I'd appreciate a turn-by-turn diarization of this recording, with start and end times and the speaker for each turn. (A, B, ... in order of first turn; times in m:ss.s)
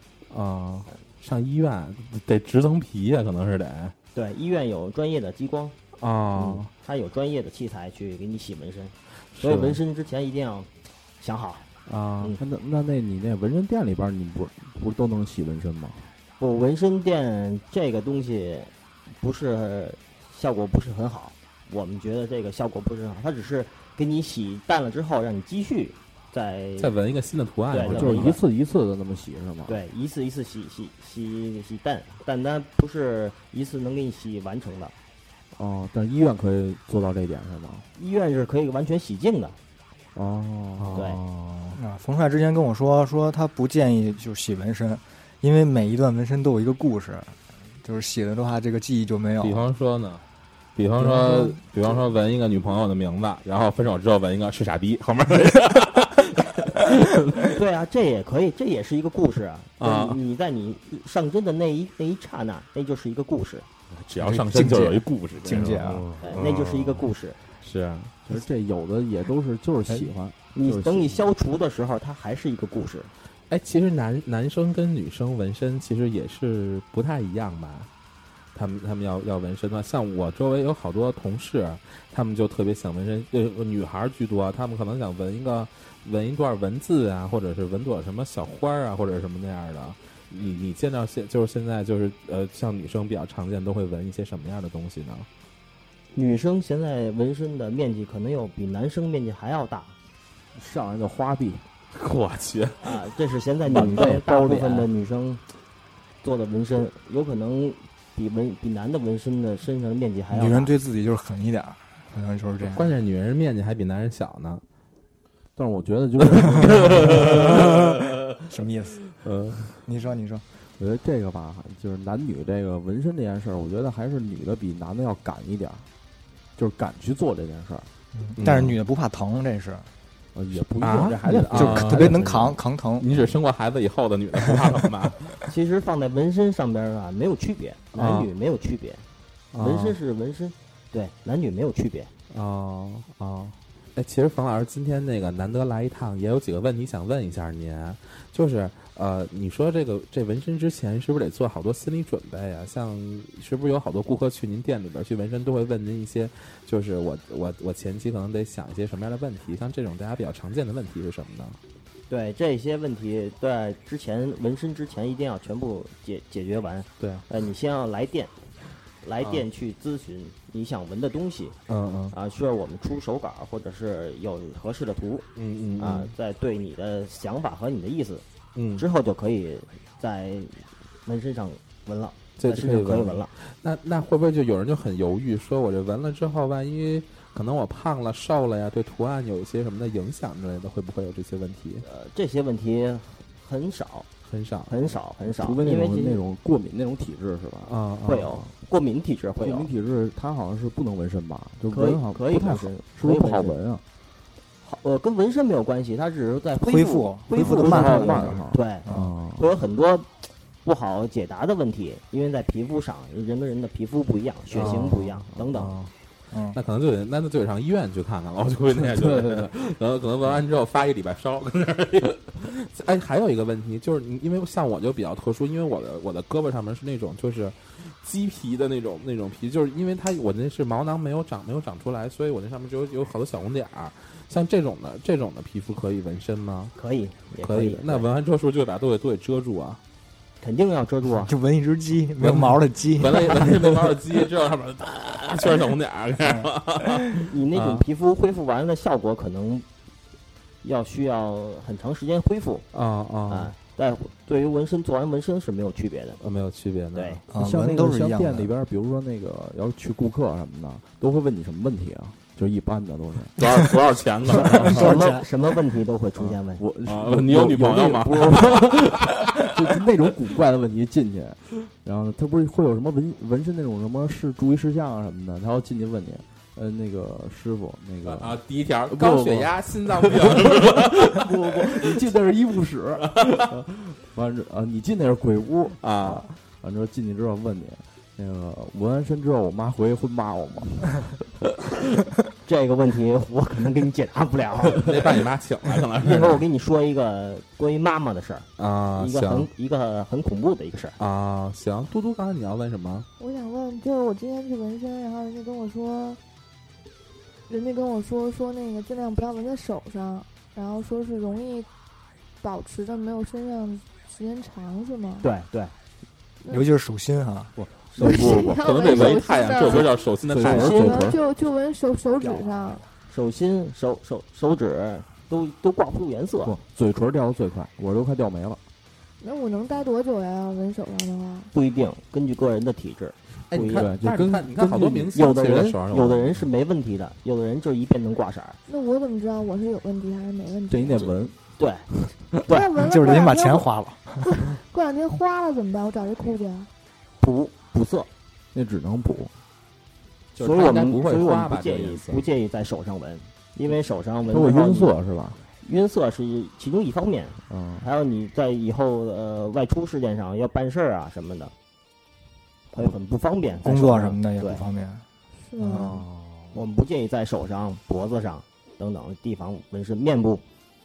0:00.3-0:03.9 A
0:04.1-0:05.7 B
0:06.0-0:06.7 A
0:06.3-0:11.7 B
0:09.3-0:09.8 A
0:11.8-0:12.4 A
0:12.4-0:16.1 C
0:16.4-0:26.9 B
0:26.8-0:28.4 A
0:27.7-0:28.4 B
0:27.8-0:29.8 C
0:29.7-0:34.9 B
0:35.5-0:37.9 C
0:38.0-0:39.6 B
0:40.1-0:41.8 C
0:40.8-0:41.2 A
0:40.9-0:41.2 B
0:41.8-0:49.6 D
0:49.4-0:50.2 A
0:50.8-0:57.5 A
0:51.0-0:51.6 D
0:57.5-1:03.6 B
0:59.8-1:00.2 A
1:03.9-1:07.0 A
1:04.2-1:06.1 D
1:06.2-1:07.4 B
1:07.6-1:08.2 A
1:08.2-1:11.2 C
1:10.5-1:13.1 B
1:13.5-1:17.9 A
1:18.5-1:35.3 A
1:36.1-1:39.9 B
1:40.5-1:41.6 C
1:41.9-1:43.0 A
1:42.8-1:45.4 B
1:43.7-1:44.9 C
1:46.2-1:50.7 B
1:50.3-1:52.9 D
1:52.6-1:54.6 A
1:55.6-1:57.8 C
1:56.3-1:57.9 A
1:57.0-1:59.0 D
1:59.2-1:59.7 A
1:59.8-2:00.4 D
2:00.8-2:05.9 C
2:06.6-2:07.9 C
2:08.1-2:09.9 D
2:08.4-2:08.8 A
2:10.3-2:12.6 C
2:10.8-2:12.2 A
2:11.5-2:13.1 D
2:13.0-2:15.4 A
2:15.5-2:19.0 B
2:17.9-2:18.3 A
2:19.5-2:20.0 A
2:19.6-2:22.1 B
2:22.3-2:41.6 A
2:42.1-2:48.3 B
2:47.0-2:47.2 A
2:49.0-2:51.6 B
2:51.7-2:52.1 A
2:52.1-2:55.2 B
2:55.4-2:56.1 A
2:55.8-2:58.2 B
2:58.6-2:58.8 A
2:58.8-3:03.3 B
3:02.4-3:11.8 A
3:11.8-3:14.1 B
3:14.2-3:14.7 A
3:14.7-3:16.2 B
3:15.2-3:18.5 C
3:17.6-3:18.3 A
3:18.1-3:19.7 B
3:19.4-3:23.8 C
3:21.7-3:23.6 B
3:24.6-3:28.9 B
3:26.6-3:29.1 D
3:27.3-3:29.5 C
3:29.4-3:30.1 B
3:30.6-3:35.7 B
3:34.5-3:35.9 A
3:34.6-3:34.9 C
3:36.3-3:36.6 D
3:36.5-3:56.7 A
3:38.8-3:39.5 C
3:56.8-3:58.0 B
3:57.4-3:59.8 A
4:00.4-4:01.3 B
4:01.2-4:04.0 D
4:02.2-4:07.8 A
4:07.3-4:09.6 B
4:10.6-4:12.7 B
4:12.7-4:13.5 A
4:13.3-4:16.2 B
4:16.2-4:17.2 A
4:16.9-4:17.2 B
4:17.3-4:18.5 D
4:17.3-4:23.4 C
4:23.4-4:25.1 A
4:24.3-4:24.8 C
4:24.7-4:26.6 B
4:24.7-4:25.2 D
4:26.6-4:51.2 C
4:26.8-4:29.5 A
4:38.0-4:42.1 A
4:45.8-4:46.3 A
4:52.4-4:54.9 B
4:54.8-4:56.4 A
4:56.0-5:01.0 B
4:58.6-4:59.5 A
5:01.0-5:03.1 A
5:03.2-5:06.2 E
5:07.5-5:11.7 E
5:12.4-5:15.3 E
5:15.2-5:15.7 B
5:16.4-5:16.7 E
5:16.5-5:17.5 D
5:17.6-5:21.2 C
5:17.9-5:18.4 B
5:18.0-5:22.8 E
5:18.0-5:21.0 A
5:20.5-5:21.0 B
5:23.0-5:26.5 B
5:26.4-5:28.6 C
5:29.2-5:31.5 E
5:31.5-5:33.9 B
5:33.5-5:36.5 A
5:33.6-5:35.3 C
5:35.1-5:38.6 B
5:38.7-5:41.1 E
5:40.7-5:41.3 C
5:41.0-5:41.9 B
5:41.9-5:42.4 C
5:42.4-5:42.7 B
5:42.5-5:46.7 E
5:42.8-5:44.3 D
5:47.2-5:48.1 B
5:48.5-5:49.3 C
5:50.3-5:52.2 A
5:50.4-5:54.9 B
5:54.3-5:55.5 C
5:55.6-6:01.5 B
5:57.5-5:57.9 C
6:02.7-6:04.6 B
6:03.6-6:05.0 D
6:05.4-6:06.0 E
6:05.6-6:06.0 D
6:06.5-6:10.4 B